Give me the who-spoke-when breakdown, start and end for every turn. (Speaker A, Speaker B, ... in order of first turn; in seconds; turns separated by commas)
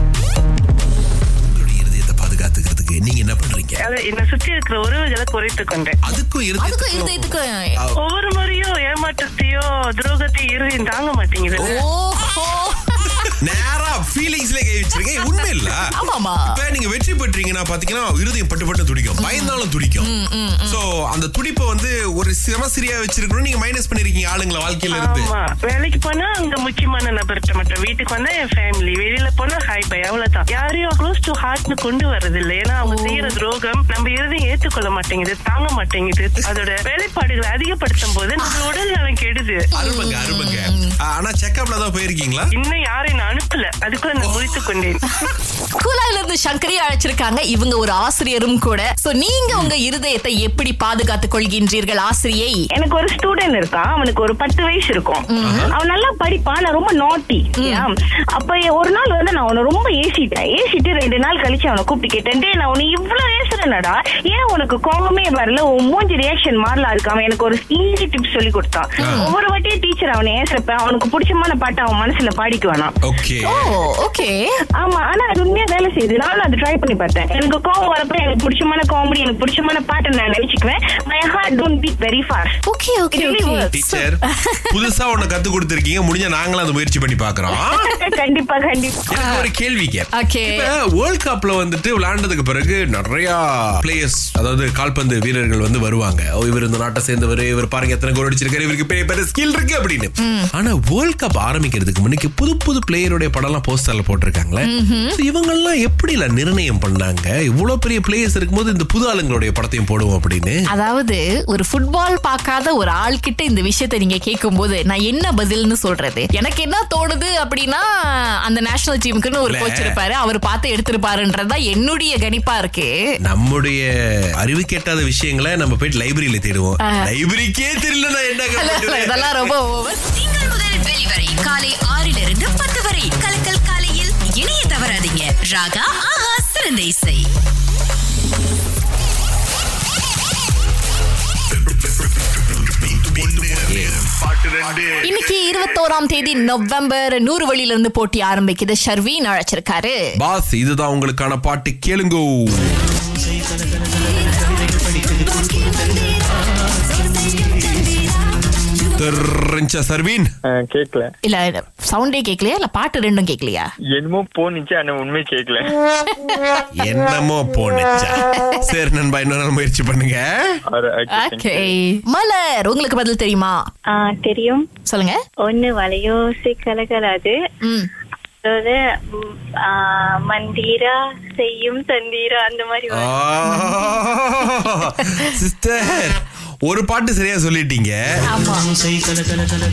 Speaker A: 1.4-3.8, Speaker B: 3.8-6.0, Speaker A: 6.0-8.0, Speaker C: 6.6-7.7, Speaker B: 8.0-11.8, Speaker C: 11.6-13.3, Speaker A: 13.4-15.8, Speaker C: 15.9-16.4, Speaker A: 16.4-20.1, Speaker C: 19.2-20.8, Speaker A: 20.6-25.3, Speaker B: 24.9-39.6, Speaker C: 32.8-33.4, Speaker A: 39.8-42.5, Speaker C: 39.8-40.9, Speaker B: 42.5-45.0, Speaker A: 44.2-44.8, Speaker C: 45.8-52.6, Speaker D: 52.7-73.0, Speaker C: 55.3-55.7, Speaker A: 55.4-55.7, Speaker A: 69.0-69.2, Speaker C: 69.0-69.3, Speaker A: 73.0-73.6, Speaker C: 73.5-74.4, Speaker D: 74.8-82.6, Speaker C: 82.7-84.7, Speaker D: 83.1-83.7, Speaker A: 83.7-87.9, Speaker D: 87.8-89.0, Speaker A: 89.1-110.6, Speaker C: 89.2-89.5, Speaker C: 90.2-90.7, Speaker C: 100.2-100.5, Speaker C: 104.6-105.2, Speaker C: 110.7-117.9, Speaker C: 118.5-122.9, Speaker A: 119.5-120.0, Speaker A: 123.2-123.9, Speaker A: 124.4-129.6, Speaker C: 126.8-127.1, Speaker C: 128.6-130.0, Speaker E: 130.1-137.2, Speaker A: 143.0-144.2, Speaker C: 145.0-150.0, Speaker A: 150.2-152.8, Speaker A: 158.9-160.3, Speaker F: 160.4-161.1, Speaker C: 161.2-163.7, Speaker F: 163.9-165.7, Speaker A: 166.8-170.2, Speaker F: 170.7-171.7, Speaker C: 171.1-173.6, Speaker G: 173.9-174.6, Speaker C: 174.9-175.2, Speaker G: 175.4-177.3, Speaker G: 178.4-183.3, Speaker A: 182.9-188.0, Speaker C: 183.4-183.8, Speaker C: 188.3-188.7